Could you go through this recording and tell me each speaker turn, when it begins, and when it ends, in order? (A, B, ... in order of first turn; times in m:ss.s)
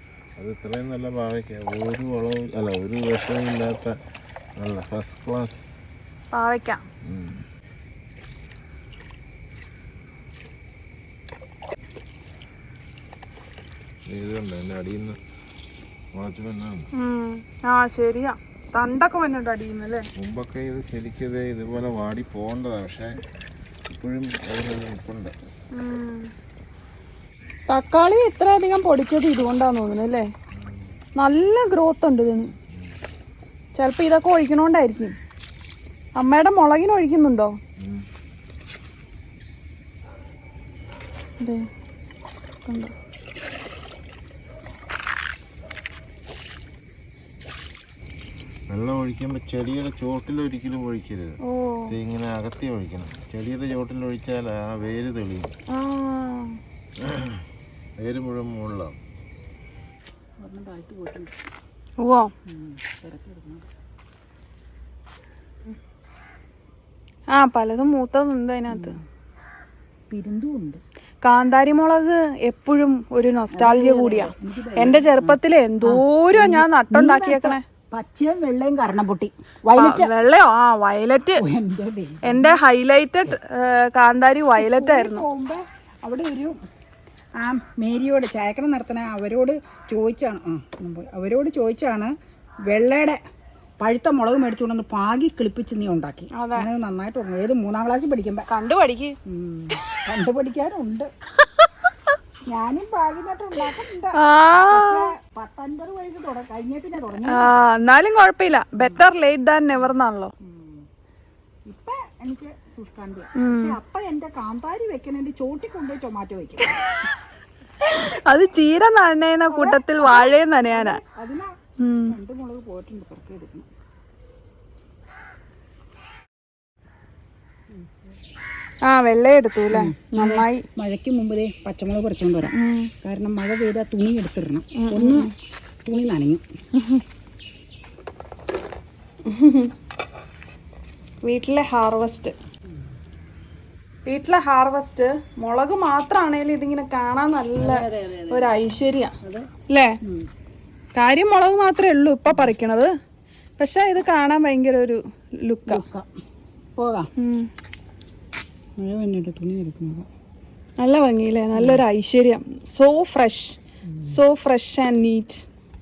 0:00.4-0:04.0 A
0:04.6-0:05.7 A
0:06.3-0:06.8 B
0:07.1-0:07.4 A
0:14.1-0:15.2 A
0:16.1-0:16.9 A
0:17.0-0:20.1 B
0:20.2-0:23.1 A
0:23.9-0:25.4 A
0:25.7-0:26.3 B
0:27.7-0:30.3 B
0:30.5-0:30.9 A
0:31.2-0:32.5 B
0:32.7-0:33.0 A
0:33.8-0:35.2 B
0:36.2-0:37.6 B
0:37.8-0:38.1 A
0:41.4-0:41.7 B
0:42.7-0:42.9 B
0:48.7-0:51.4 A
0:51.5-0:51.9 B
0:51.9-0:55.5 A
0:55.7-0:56.6 B
0:57.0-0:57.4 A
0:58.0-0:59.0 A
1:00.4-1:01.4 C
1:02.0-1:02.3 B
1:02.5-1:03.7 C
1:07.3-1:09.0 B
1:08.7-1:09.0 C
1:10.1-1:10.8 C
1:11.2-1:17.6 B
1:13.5-1:20.1 C
1:19.8-1:21.4 B
1:21.4-1:22.6 C
1:22.2-1:25.2 B
1:24.6-1:26.6 C
1:27.4-1:32.1 C
1:32.7-1:33.2 C
1:33.8-1:38.5 C
1:36.3-1:36.7 B
1:38.5-1:39.2 B
1:39.2-1:41.1 C
1:41.4-1:41.7 B
1:42.5-1:44.2 C
1:44.2-1:45.1 B
1:44.7-1:47.6 C
1:47.3-1:50.3 B
1:50.4-1:50.8 C
1:51.7-1:56.8 C
1:53.4-1:53.8 B
1:56.6-1:57.2 B
1:57.8-2:01.0 B
1:59.5-2:03.7 C
2:01.8-2:02.2 B
2:07.7-2:08.0 C
2:08.9-2:10.6 B
2:09.7-2:15.3 C
2:12.5-2:12.9 B
2:14.8-2:15.3 B
2:15.9-2:16.4 C
2:16.8-2:17.0 B
2:19.2-2:19.7 B
2:21.2-2:22.4 B
2:24.1-2:29.1 B
2:27.6-2:28.5 C
2:29.2-2:29.5 C
2:29.7-2:30.0 B
2:31.0-2:32.9 B
2:33.6-2:35.8 B
2:35.7-2:36.1 C
2:36.8-2:37.1 C
2:37.2-2:37.5 B
2:38.8-2:40.1 C
2:40.8-2:45.5 B
2:41.6-2:41.8 C
2:43.9-2:44.1 C